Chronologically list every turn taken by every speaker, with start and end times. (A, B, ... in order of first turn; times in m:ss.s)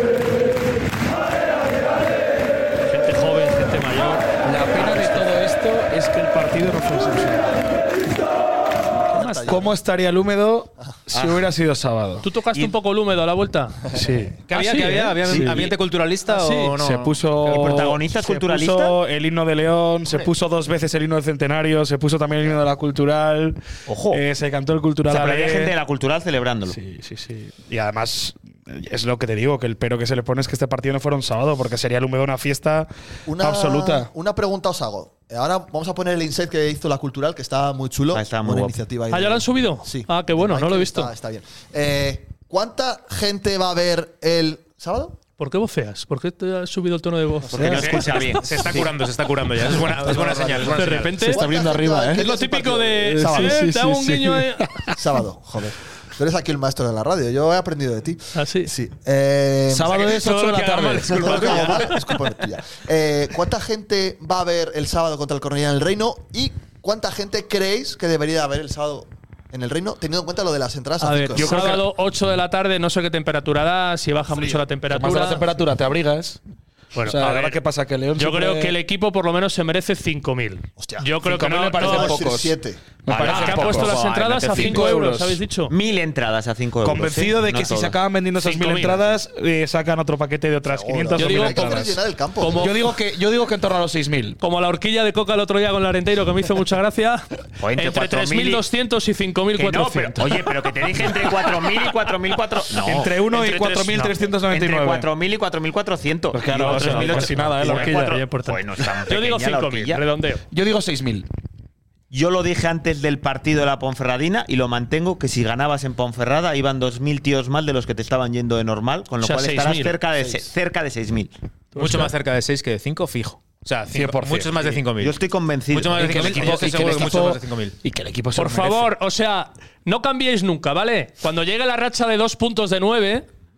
0:02.8-0:05.3 A
0:04.4-0:07.6 B
0:09.1-0:09.8 C
0:09.1-0:09.6 A
0:09.4-0:12.3 B
0:12.2-0:13.8 A
0:13.9-0:14.2 C
0:13.9-0:14.4 B
0:14.5-0:18.0 D
0:14.5-0:15.2 A
0:15.2-0:15.7 B
0:15.3-0:15.5 E
0:16.3-0:16.8 A
0:16.8-0:23.6 B
0:17.4-0:19.0 E
0:23.9-0:24.2 E
0:24.1-0:25.8 B
0:25.1-0:26.8 E
0:26.7-0:34.1 B
0:33.3-0:45.2 C
0:38.1-0:38.8 E
0:39.1-0:41.1 A
0:45.4-0:47.8 A
0:47.5-0:48.9 E
0:47.5-0:48.1 B
0:47.6-0:48.6 C
0:47.7-0:51.3 D
0:50.0-0:53.7 C
0:50.7-0:51.4 A
0:51.3-0:52.3 B
0:52.2-0:54.9 A
0:53.1-0:55.0 B
0:54.9-1:00.0 C
0:58.3-0:58.7 A
0:59.7-1:01.8 B
1:00.1-1:01.9 D
1:00.6-1:01.9 A
1:01.1-1:11.8 C
1:11.0-1:15.5 A
1:11.4-1:11.8 B
1:14.3-1:14.6 C
1:14.9-1:16.4 B
1:16.9-1:17.6 A
1:17.0-1:18.8 B
1:18.2-1:22.2 A
1:20.8-1:21.1 C
1:21.2-1:24.0 B
1:21.8-1:22.8 C
1:23.1-1:24.9 E
1:23.2-1:25.7 A
1:24.5-1:25.4 B
1:25.7-1:28.0 E
1:26.8-1:34.4 B
1:28.4-1:29.0 A
1:30.7-1:32.8 C
1:31.2-1:31.8 A
1:32.4-1:32.8 A
1:34.4-1:37.2 A
1:37.6-1:38.6 E
1:37.8-1:40.4 A
1:39.6-1:50.0 E
1:42.7-1:45.1 B
1:46.3-1:48.2 B
1:46.5-1:50.4 A
1:50.5-1:51.3 B
1:52.1-2:01.3 E
1:59.2-2:00.0 A
2:01.8-2:02.1 A
2:01.8-2:07.8 D
2:03.9-2:04.8 B
2:05.0-2:07.0 E
2:06.0-2:08.9 B
2:08.4-2:13.3 A